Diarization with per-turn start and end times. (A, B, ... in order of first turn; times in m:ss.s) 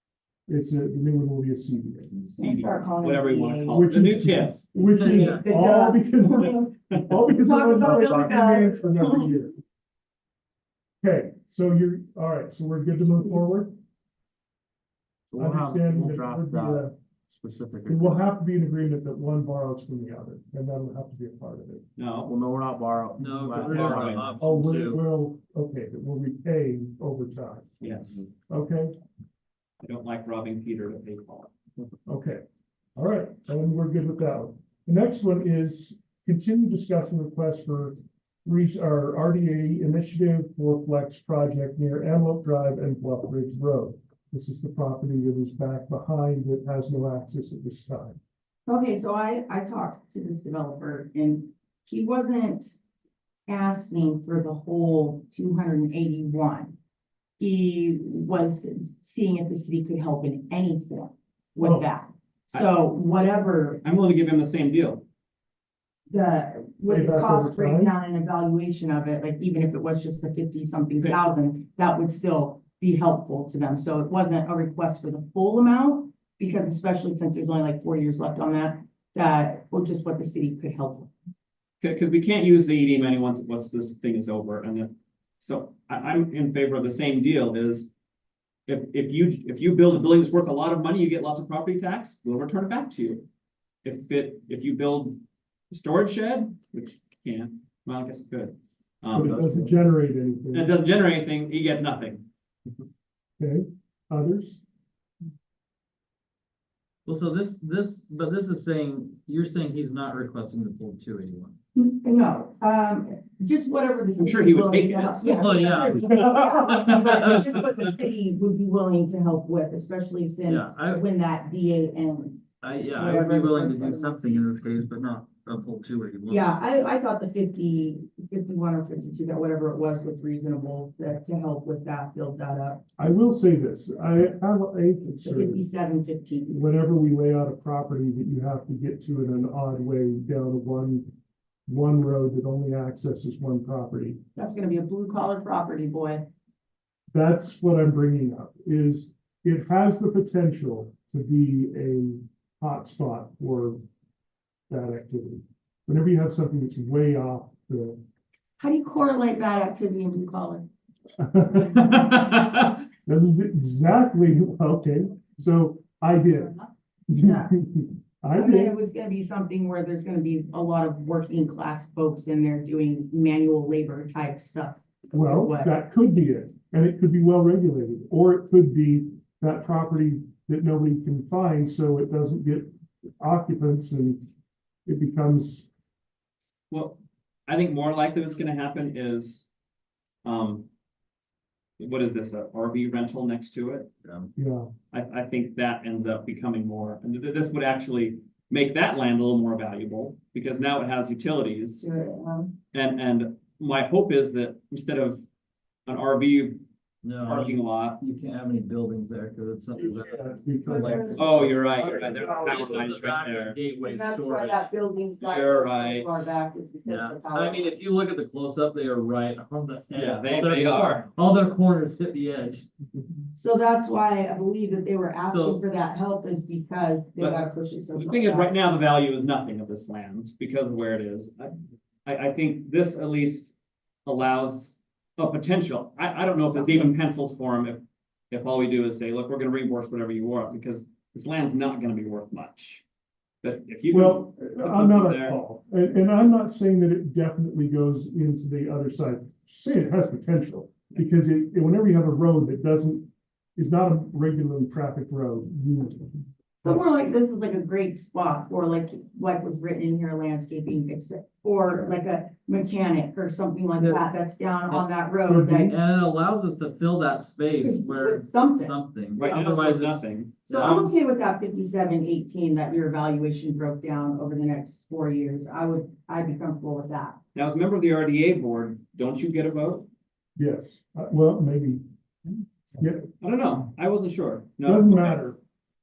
0:00.5-0:02.3 A
0:02.3-0:04.7 B
0:02.4-0:03.8 C
0:03.7-0:09.5 A
0:05.0-0:05.4 D
0:05.0-0:06.7 C
0:07.3-0:09.3 C
0:07.8-0:08.4 E
0:11.0-0:13.7 A
0:15.3-0:18.2 E
0:15.4-0:16.9 A
0:17.9-0:21.8 A
0:22.0-0:22.3 B
0:22.2-0:24.4 E
0:23.2-0:25.0 D
0:23.7-0:24.3 B
0:24.4-0:28.9 A
0:27.8-0:28.2 B
0:29.8-0:31.5 B
0:32.1-0:32.4 A
0:33.0-0:48.2 A
0:48.7-0:52.7 C
0:53.5-0:56.8 C
0:57.4-1:03.8 C
1:01.6-1:01.9 A
1:03.8-1:05.0 B
1:06.1-1:21.1 C
1:06.9-1:07.9 A
1:21.8-1:27.9 B
1:28.7-1:33.2 B
1:33.8-1:39.6 B
1:39.1-1:40.7 A
1:39.2-1:39.7 E
1:40.5-1:42.8 B
1:43.4-1:44.6 A
1:47.0-1:51.6 D
1:51.8-2:02.4 C
1:54.2-1:56.5 B
1:55.4-1:57.5 D
2:00.4-2:01.0 D
2:02.6-2:06.5 D
2:02.9-2:04.4 C
2:06.3-2:12.8 C
2:13.0-2:15.6 A
2:15.2-2:17.2 C
2:16.5-2:21.1 A
2:21.7-2:24.2 A
2:24.4-2:26.2 C
2:27.1-2:33.8 A
2:34.7-2:38.0 A
2:38.6-2:40.7 C
2:41.2-2:41.9 A
2:41.7-2:42.8 B
2:43.0-2:46.5 A
2:47.1-2:48.8 A
2:47.2-2:47.5 C
2:48.3-2:55.7 C
2:55.1-3:04.2 A
3:04.8-3:05.7 A
3:06.7-3:09.5 B
3:10.2-3:10.7 B
3:11.8-3:13.9 B
3:14.0-3:14.3 D
3:14.4-3:14.7 A
3:14.9-3:21.8 B
3:21.8-3:22.6 C
3:22.7-3:25.2 B
3:25.8-3:26.6 B
3:27.0-3:34.7 D
3:27.2-3:28.0 B
3:29.8-3:32.7 A
3:30.6-3:31.3 C
3:31.2-3:33.6 B
3:33.9-3:37.8 C
3:35.2-3:36.3 B
3:36.8-3:42.7 D
3:39.9-3:41.0 B
3:43.4-3:48.5 C
3:45.2-3:45.6 D
3:47.2-3:51.5 B
3:52.0-4:02.8 B
4:03.4-4:05.4 B
4:03.9-4:16.9 A
4:16.6-4:25.7 C
4:25.3-4:25.7 A
4:25.6-4:30.8 D
4:27.6-4:29.4 C
4:29.2-4:30.9 B
4:30.5-4:37.2 C
4:37.3-4:39.9 B
4:40.4-4:41.8 A
4:42.8-4:43.1 A
4:43.2-4:45.2 B
4:44.6-4:45.4 A